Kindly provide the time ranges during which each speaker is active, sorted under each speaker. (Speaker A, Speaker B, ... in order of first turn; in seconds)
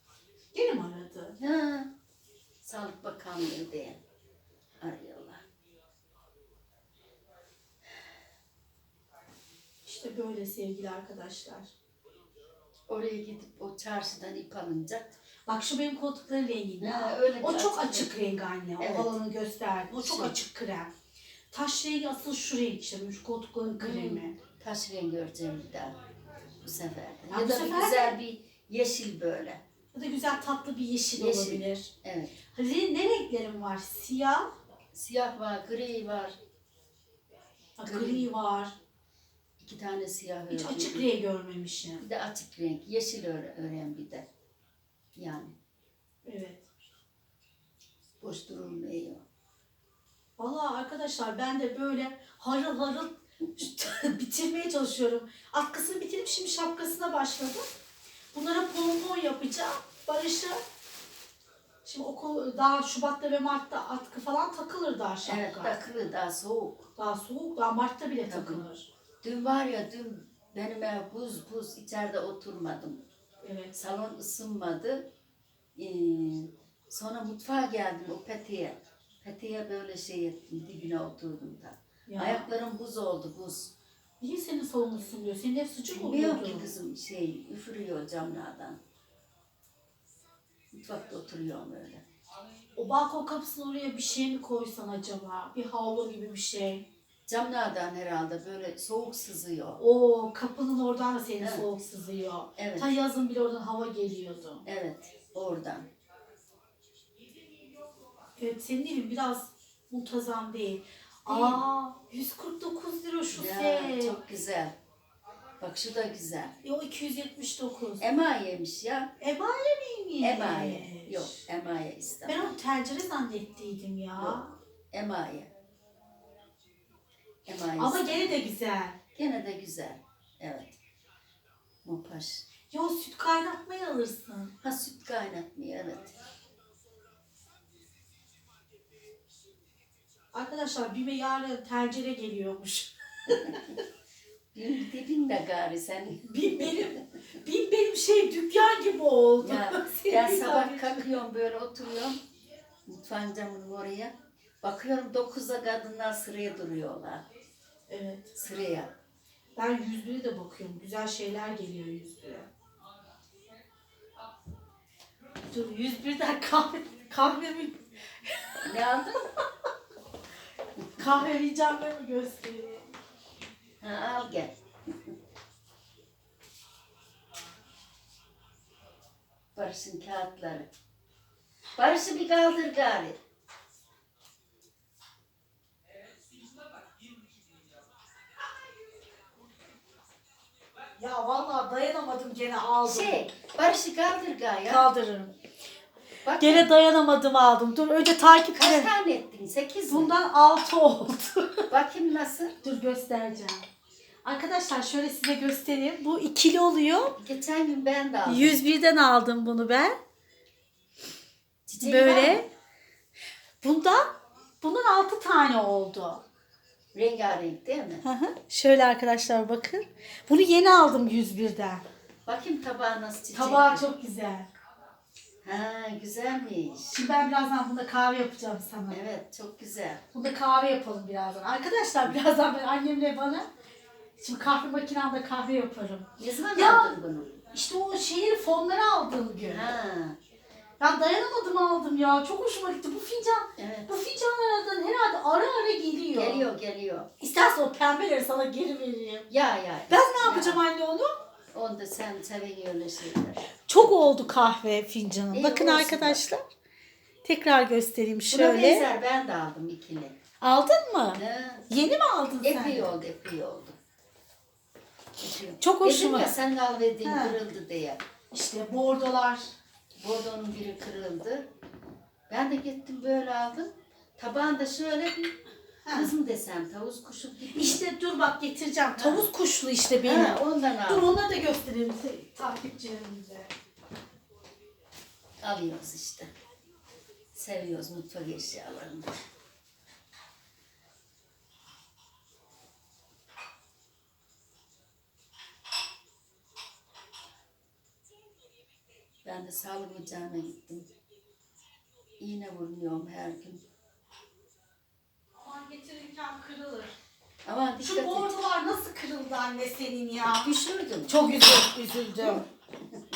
Speaker A: 0.5-1.4, 9.8-11.7, 15.5-20.9, 21.5-24.4, 27.3-28.2, 29.9-31.9, 32.5-34.5, 37.8-38.7, 40.5-42.0, 46.2-46.6, 50.4-57.6, 58.3-60.6, 61.8-65.7, 67.0-68.9, 73.4-73.7, 82.1-82.5, 84.2-86.7, 92.8-96.8, 99.8-104.6, 108.4-114.2, 116.6-118.0, 119.2-121.4, 122.3-124.5, 127.8-129.0, 132.7-134.5, 140.3-143.6, 146.2-151.2, 157.9-158.3, 159.6-162.5, 165.5-168.7, 171.0-172.9, 191.0-193.2, 194.6-195.3, 196.4-198.9, 199.9-201.7, 202.6-203.6, 204.2-207.1, 208.2-210.0, 211.8-212.5, 213.6-216.2, 218.0-221.8, 223.3-224.5, 226.9-229.0, 230.1-233.5, 234.2-236.9, 237.5-239.7, 240.8-246.5, 247.2-249.3, 249.9-251.1, 253.6-256.4, 257.2-258.9, 260.4-262.9, 265.6-266.3, 267.0-267.4, 268.3-269.5, 275.9-276.1, 277.5-283.5, 305.4-306.9, 307.8-310.5, 311.1-312.4
Speaker B: 1.4-1.9, 2.6-4.0, 4.8-5.4, 12.9-15.2, 16.8-18.1, 18.8-19.1, 19.9-20.3, 23.7-25.9, 26.6-29.6, 31.1-32.3, 34.9-36.3, 37.8-38.3, 39.6-41.1, 42.0-44.3, 45.1-45.5, 48.2-49.2, 65.2-66.9, 68.3-68.7, 69.2-73.0, 73.7-75.1, 75.7-83.7, 85.9-88.8, 90.7-92.0, 97.3-99.8, 101.4-101.7, 102.6-102.9, 104.6-105.9, 111.3-111.6, 113.3-114.7, 115.6-116.6, 118.0-119.1, 120.2-122.5, 124.2-125.5, 127.5-128.4, 129.1-130.8, 131.8-132.4, 134.6-136.1, 144.5-146.7, 149.4-152.2, 152.8-157.2, 158.3-158.9, 168.6-169.2, 173.8-174.6, 179.5-180.7, 181.8-183.2, 192.8-194.9, 196.2-196.7, 198.5-200.1, 201.7-202.5, 207.2-208.6, 211.7-212.4, 216.9-218.0, 222.2-223.8, 225.4-226.9, 228.9-230.0, 236.2-237.4, 239.4-240.2, 243.6-243.9, 246.1-247.1, 249.3-250.6, 251.5-253.5, 255.3-256.2, 258.3-260.1, 261.1-261.6, 262.4-263.8, 265.2-268.0, 269.9-271.5, 272.3-275.3, 275.9-277.8, 278.9-279.3, 280.0-281.1, 285.4-286.3, 287.3-289.1, 299.2-300.9, 302.2-303.6, 307.4-308.4, 310.4-311.2, 312.2-312.4